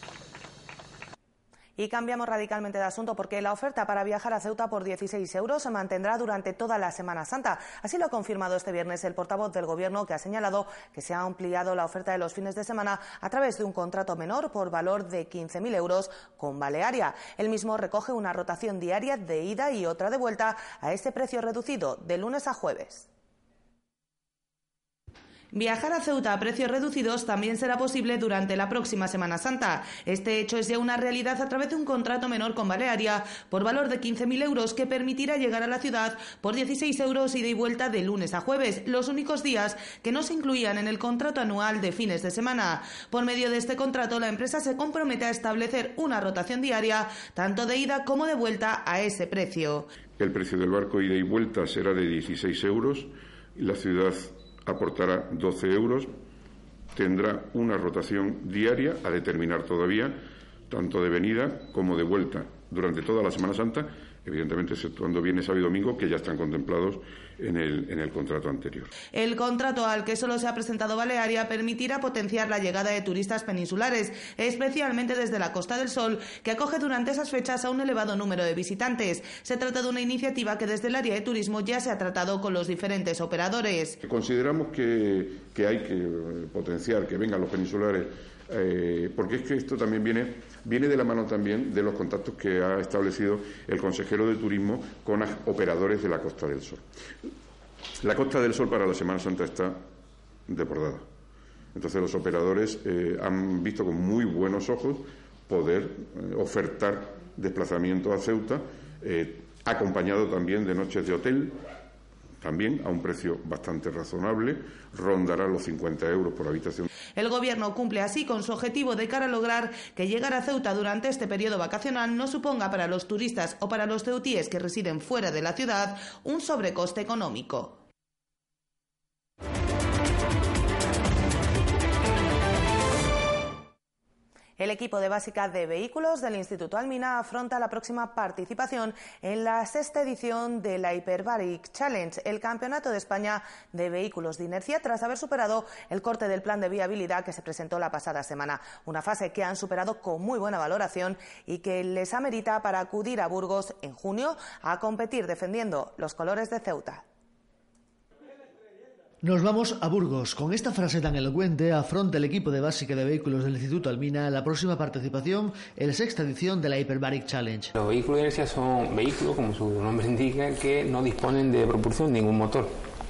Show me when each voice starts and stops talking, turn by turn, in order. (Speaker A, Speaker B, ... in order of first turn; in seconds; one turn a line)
Speaker A: 1.8-23.1
Speaker A: 25.5-49.9
Speaker B: 50.2-56.1
Speaker B: 56.9-68.9
Speaker A: 69.1-84.0
Speaker B: 84.0-96.8
Speaker B: 98.0-99.8
Speaker B: 100.5-101.0
Speaker B: 101.7-111.6
Speaker B: 112.4-116.9
Speaker A: 117.2-127.8
Speaker A: 134.6-157.0
Speaker C: 159.2-167.7
Speaker D: 167.7-172.7